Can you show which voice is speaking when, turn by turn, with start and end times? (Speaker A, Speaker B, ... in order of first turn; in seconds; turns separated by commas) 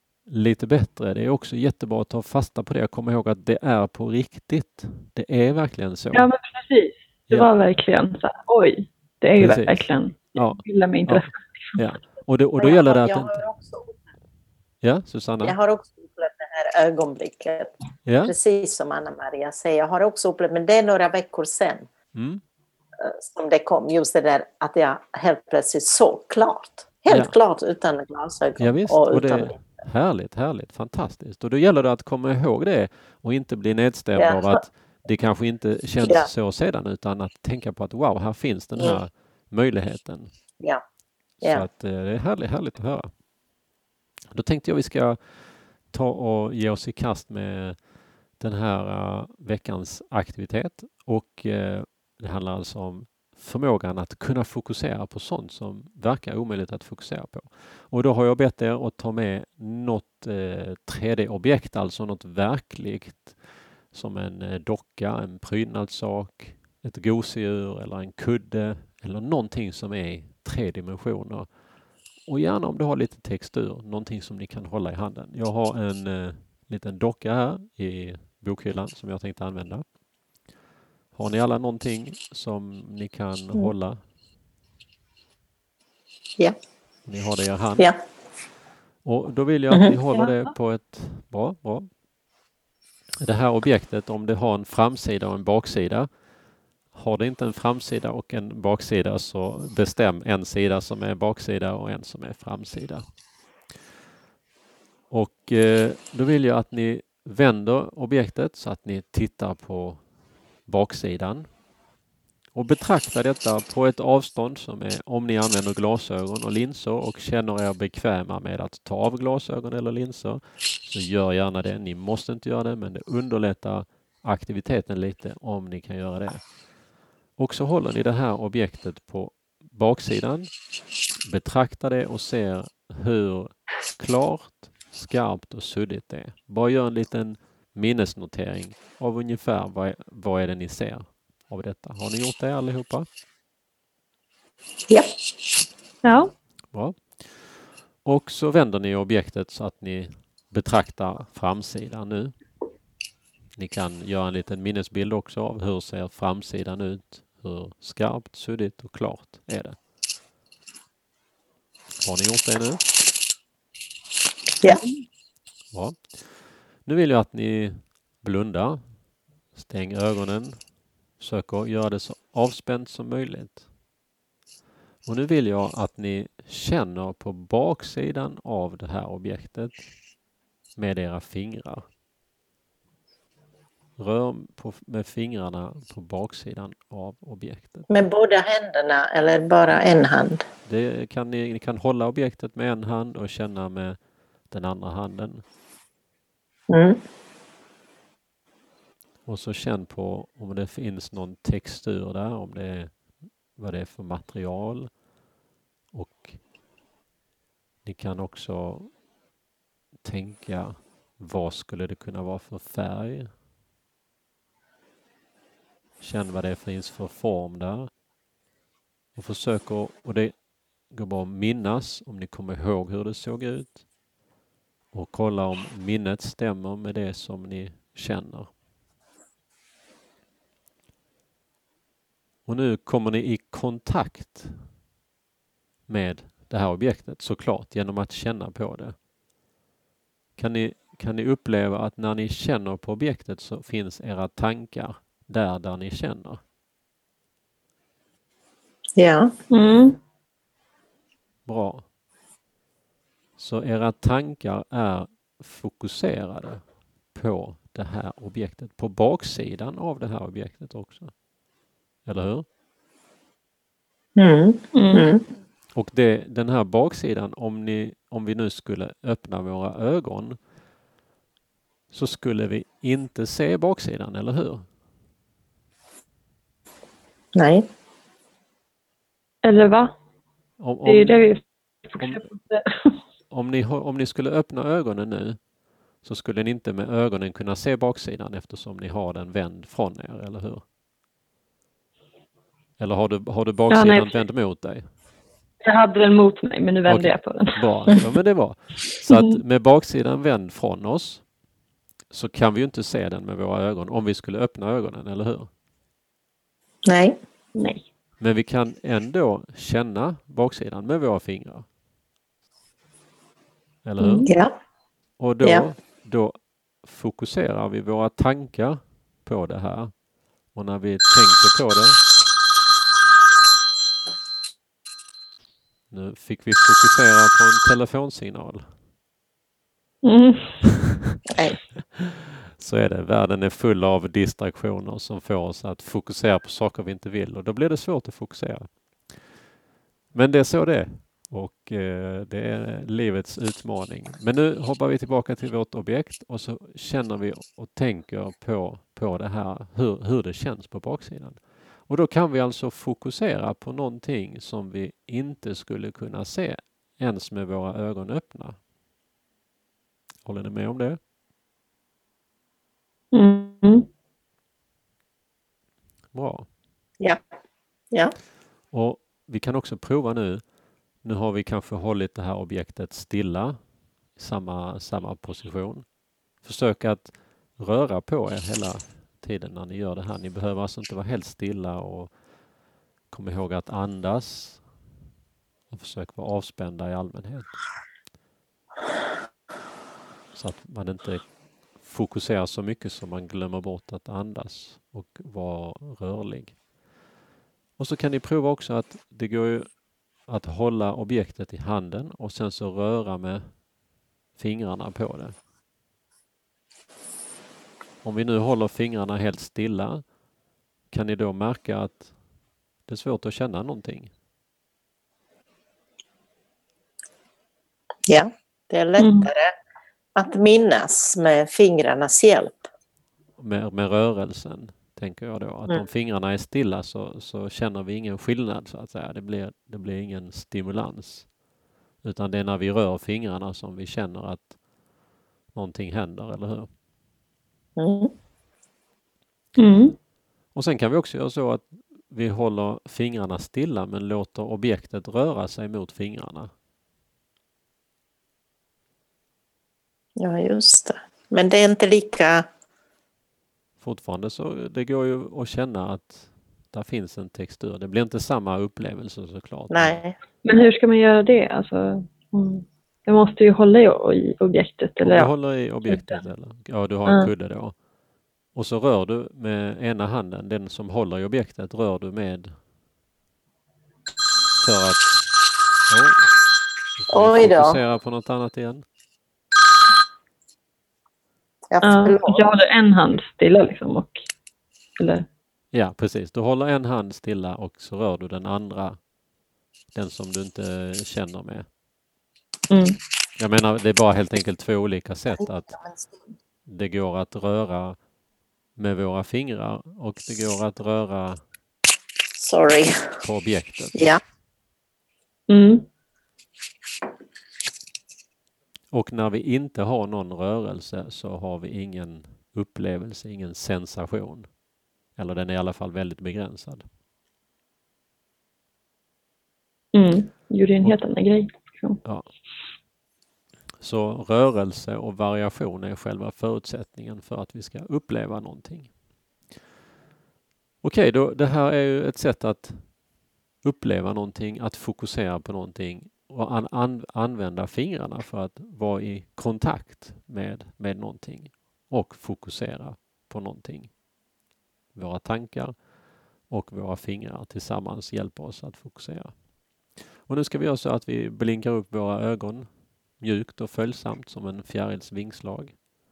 Speaker A: 0.2-6.3, Speaker B: 6.1-11.8, Speaker A: 9.4-13.4, Speaker C: 12.6-14.0, Speaker A: 14.8-15.6, Speaker C: 15.4-17.7, Speaker A: 18.1-18.3, Speaker C: 18.2-21.9, Speaker A: 22.1-22.4, Speaker C: 23.0-29.6, Speaker A: 27.1-27.3, Speaker A: 28.6-40.3, Speaker C: 34.1-34.6, Speaker C: 36.0-36.3, Speaker C: 41.4-41.7, Speaker A: 41.4-43.1, Speaker A: 44.3-71.5, Speaker A: 72.3-79.8, Speaker A: 81.1-84.0, Speaker A: 87.1-87.9, Speaker A: 89.0-92.0, Speaker B: 90.1-90.5, Speaker A: 93.2-96.1, Speaker A: 96.9-103.0, Speaker A: 105.1-110.1, Speaker A: 110.7-111.6, Speaker A: 112.5-126.5, Speaker A: 127.4-130.5, Speaker A: 131.2-143.1, Speaker B: 146.0-146.3, Speaker A: 146.7-152.3, Speaker A: 153.6-159.8, Speaker A: 162.0-162.9, Speaker B: 164.6-165.0, Speaker A: 165.7-168.8, Speaker A: 169.5-173.7, Speaker A: 175.1-179.9, Speaker A: 180.8-181.8, Speaker A: 184.0-188.1, Speaker C: 187.9-190.4, Speaker A: 190.7-195.4, Speaker C: 196.7-197.0, Speaker A: 199.2-205.0, Speaker A: 205.9-206.4, Speaker A: 207.8-209.0, Speaker A: 210.0-213.3, Speaker A: 216.0-217.9, Speaker A: 219.2-220.4, Speaker A: 220.9-223.9, Speaker A: 224.9-228.5, Speaker A: 232.4-234.6, Speaker A: 235.9-238.9, Speaker A: 240.4-246.4, Speaker C: 249.0-249.3, Speaker B: 249.5-250.0, Speaker A: 251.5-251.9, Speaker A: 253.4-261.2, Speaker A: 262.1-262.4, Speaker C: 264.2-265.2, Speaker B: 264.8-265.1, Speaker A: 265.8-270.4, Speaker A: 271.9-274.7, Speaker C: 277.4-277.6, Speaker B: 279.4-279.9, Speaker A: 280.6-281.3, Speaker B: 280.8-283.0, Speaker A: 282.0-282.3, Speaker A: 283.3-285.4, Speaker A: 286.0-290.6, Speaker A: 292.8-294.9, Speaker B: 293.7-294.2, Speaker B: 295.6-298.0, Speaker A: 296.9-301.3, Speaker B: 299.1-299.3, Speaker A: 302.1-305.5, Speaker C: 306.9-307.1, Speaker B: 307.6-307.9, Speaker A: 308.2-311.7, Speaker A: 313.8-314.3, Speaker B: 314.0-314.3, Speaker C: 314.3-314.5, Speaker A: 315.2-319.9, Speaker C: 315.4-315.7, Speaker A: 320.5-322.0, Speaker A: 325.9-328.7, Speaker B: 330.0-330.6, Speaker C: 331.3-331.6, Speaker A: 332.6-339.3, Speaker A: 340.1-358.6, Speaker A: 360.2-361.0, Speaker B: 363.1-363.9, Speaker A: 366.1-366.5, Speaker A: 368.7-382.2, Speaker A: 383.1-384.7, Speaker A: 385.7-387.6, Speaker A: 390.3-396.6, Speaker A: 397.8-403.7, Speaker A: 404.4-405.4, Speaker A: 408.0-410.1, Speaker A: 410.9-412.1, Speaker A: 412.8-414.1, Speaker C: 418.1-419.5, Speaker B: 419.0-419.3, Speaker C: 420.2-422.7, Speaker A: 423.4-431.3, Speaker A: 432.0-434.6, Speaker A: 435.5-436.7, Speaker C: 437.8-438.1, Speaker B: 439.6-440.0, Speaker A: 440.5-446.5, Speaker C: 450.2-452.4, Speaker A: 453.8-460.0, Speaker C: 459.7-460.2, Speaker B: 460.4-466.3, Speaker A: 465.0-467.8, Speaker B: 467.1-467.3, Speaker A: 468.5-472.5, Speaker A: 474.6-475.3, Speaker A: 475.9-476.3, Speaker A: 477.0-478.8, Speaker C: 477.1-477.8, Speaker C: 481.7-482.5, Speaker B: 481.8-484.3, Speaker B: 485.0-485.3, Speaker A: 485.7-489.0, Speaker A: 489.9-491.7, Speaker B: 492.7-493.0, Speaker A: 493.4-495.7, Speaker C: 495.4-496.2, Speaker A: 496.7-498.0, Speaker A: 498.8-501.4, Speaker C: 502.4-502.9, Speaker A: 503.2-504.0, Speaker C: 503.9-504.2, Speaker B: 505.5-505.9, Speaker A: 508.9-514.5, Speaker A: 515.1-516.9, Speaker B: 519.9-522.0, Speaker A: 522.0-522.3, Speaker A: 523.8-528.9, Speaker A: 530.8-533.0, Speaker A: 533.6-543.9, Speaker A: 544.9-545.9, Speaker A: 546.4-549.4, Speaker A: 550.2-555.8